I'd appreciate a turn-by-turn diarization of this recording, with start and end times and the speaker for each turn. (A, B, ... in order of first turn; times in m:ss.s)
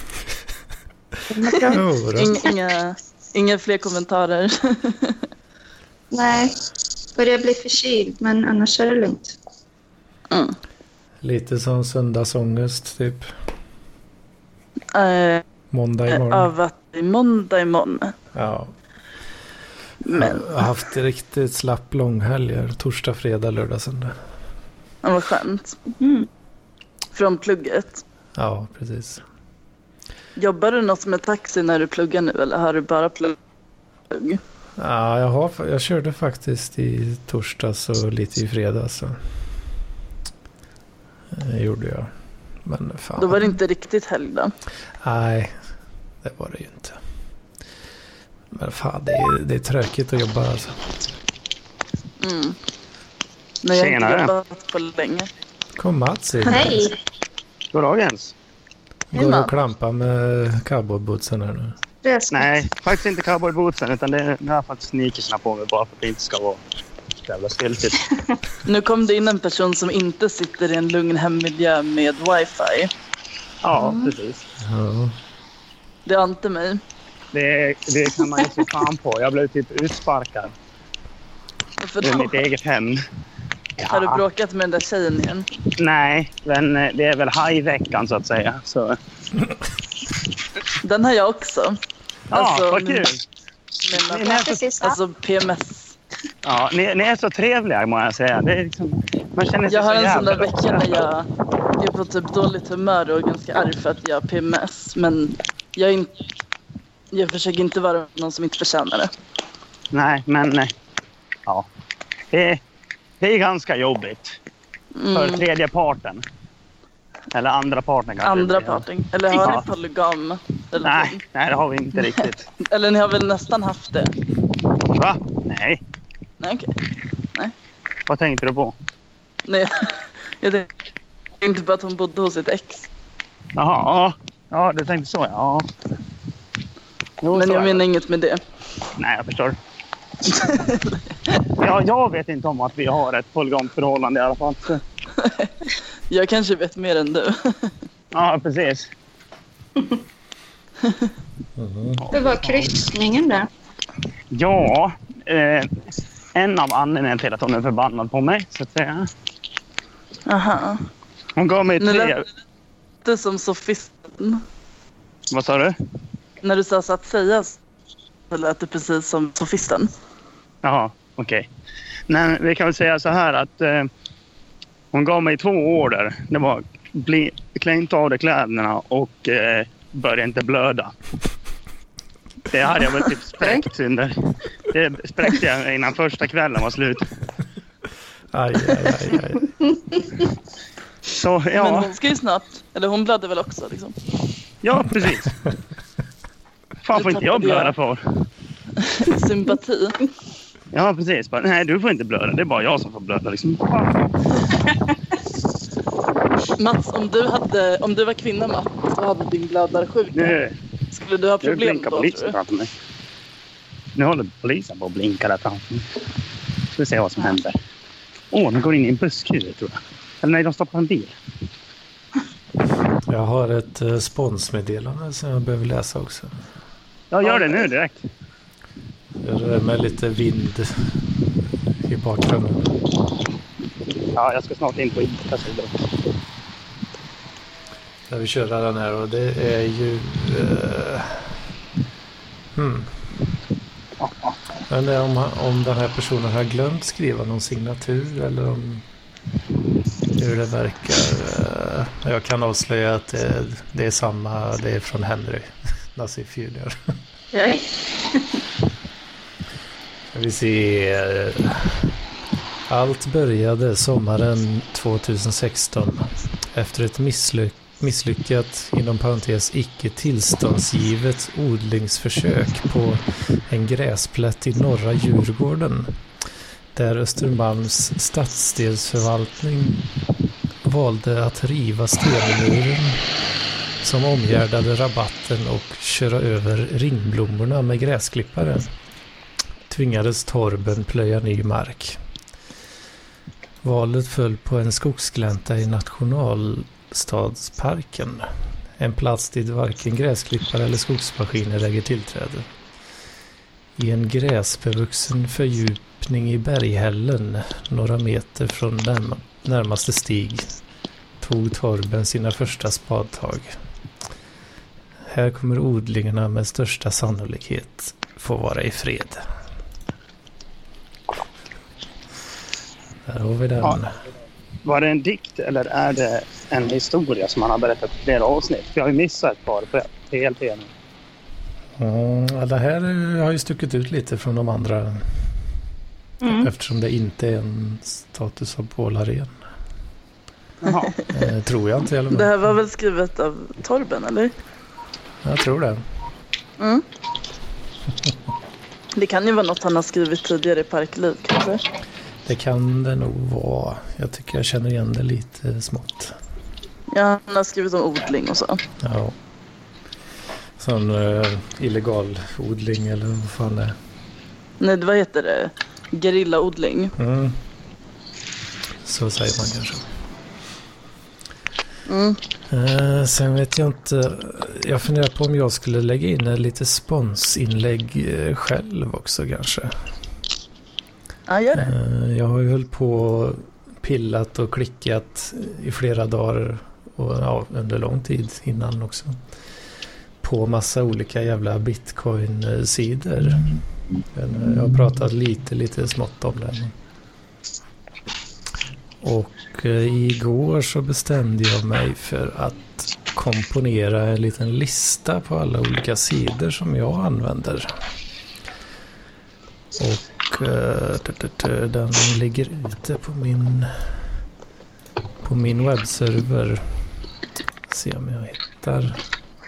0:01.3-0:01.8 A
0:01.7-0:02.4 B
0:02.1-0:05.2 C
0:06.1-0:06.6 A
0:07.2-0:09.4 A
0:10.3-0:10.6 C
0:11.2-0:13.3 B
0:14.9-0:15.4 C
0:15.7-0:16.5 B
0:16.1-0:18.1 C
0:18.3-0:18.7 B
0:20.0-0:20.5 C
0:20.1-0:24.2 B
0:25.0-0:25.8 C
0:26.0-0:26.3 A
0:27.1-0:28.0 C
0:28.4-0:29.2 B
0:30.4-0:33.4 C
0:34.1-0:34.4 C
0:34.8-0:39.3 B
0:41.3-0:42.1 B
0:42.6-0:43.5 B
0:43.2-0:44.5 C
0:45.0-0:45.6 B
0:46.2-0:47.0 B
0:48.5-0:50.8 B
0:52.2-0:52.6 C
0:53.6-0:55.3 C
0:53.7-0:54.3 D
0:55.8-0:56.9 B
0:56.4-0:57.0 A
0:57.7-0:58.3 D
0:59.1-1:01.8 B
0:59.1-0:59.5 C
1:02.0-1:02.5 A
1:02.3-1:06.6 D
1:07.2-1:08.1 D
1:08.6-1:12.9 C
1:13.6-1:14.4 D
1:13.7-1:14.1 A
1:14.6-1:15.2 B
1:16.1-1:16.8 C
1:17.3-1:20.5 D
1:21.8-1:22.4 C
1:22.0-1:23.0 D
1:23.8-1:24.2 D
1:23.9-1:25.5 C
1:25.8-1:29.0 D
1:30.8-1:31.8 C
1:32.3-1:33.1 C
1:32.3-1:33.2 D
1:33.8-1:36.0 C
1:34.0-1:34.6 D
1:34.1-1:35.0 A
1:36.4-1:41.0 D
1:39.7-1:46.2 C
1:47.1-1:49.1 C
1:49.9-1:50.7 D
1:52.3-1:52.6 D
1:53.2-1:54.4 D
1:54.9-1:55.4 C
1:55.1-1:56.2 D
1:57.3-1:59.6 D
1:58.2-2:01.2 C
2:00.8-2:02.5 D
2:02.6-2:04.1 C
2:04.8-2:05.8 D
2:06.4-2:06.7 C
2:08.1-2:08.8 D
2:09.4-2:10.7 C
2:11.4-2:12.9 C
2:13.6-2:15.7 D
2:17.2-2:17.8 D
2:17.3-2:18.4 C
2:19.0-2:19.6 D
2:20.2-2:21.2 C
2:21.5-2:24.8 D
2:25.1-2:27.8 C
2:28.1-2:28.9 D
2:30.8-2:31.1 C
2:31.6-2:32.0 B
2:32.0-2:32.7 D
2:32.1-2:33.5 A
2:34.3-2:35.8 D
2:36.3-2:39.1 D
2:40.2-2:40.8 C
2:41.4-2:42.2 D
2:41.8-2:42.2 C
2:43.0-2:44.4 C
2:45.3-2:45.7 D
2:46.4-2:47.6 C
2:48.3-2:49.9 C
2:50.6-2:51.5 D
2:52.1-2:53.9 D
2:54.9-3:00.9 D
3:02.5-3:07.1 D
3:08.3-3:09.5 B
3:11.1-3:11.9 D
3:11.6-3:14.0 C
3:14.6-3:15.3 D
3:16.8-3:18.0 D
3:16.9-3:17.7 C
3:18.8-3:20.1 C
3:20.7-3:24.3 D
3:26.6-3:30.4 C
3:30.2-3:30.6 D
3:30.9-3:32.3 C
3:31.4-3:32.7 D
3:33.9-3:35.9 D
3:36.8-3:37.6 D
3:38.3-3:41.1 D
3:43.1-3:46.3 B
3:47.1-3:48.1 D
3:49.2-3:51.0 B
3:51.8-3:52.7 B
3:54.1-3:56.0 D
3:58.1-4:01.4 B
4:02.5-4:03.1 B
4:04.0-4:04.3 D
4:04.7-4:08.8 B
4:10.1-4:16.8 B
4:17.3-4:18.4 A
4:20.1-4:21.9 B
4:22.7-4:36.0 B
4:36.8-4:39.9 B
4:40.6-4:43.1 B
4:43.8-4:48.7 B
4:49.7-4:52.0 B
4:53.6-5:02.5 B
5:03.8-5:10.5 B
5:11.2-5:13.6 B
5:15.1-5:19.2 B
5:23.1-5:24.0 B
5:24.6-5:30.7 D
5:31.8-5:35.3 B
5:36.2-5:36.5 A
5:36.3-5:39.4 B
5:40.6-5:40.9 D
5:41.1-5:42.4 B
5:42.1-5:44.3 C
5:45.2-5:45.8 B
5:46.6-5:46.8 C
5:48.9-5:51.6 C
5:52.2-5:56.2 B
5:56.9-5:58.6 C
5:58.8-5:59.2 B
6:00.6-6:03.8 B
6:04.6-6:06.9 C
6:07.0-6:07.4 B
6:08.8-6:09.9 B
6:11.9-6:12.2 C
6:12.5-6:19.8 B
6:21.3-6:21.7 C
6:21.5-6:29.2 B
6:30.2-6:33.5 B
6:34.1-6:36.8 B
6:39.0-6:47.7 B
6:49.8-6:54.0 B
6:55.2-6:56.8 B
6:57.7-6:59.0 B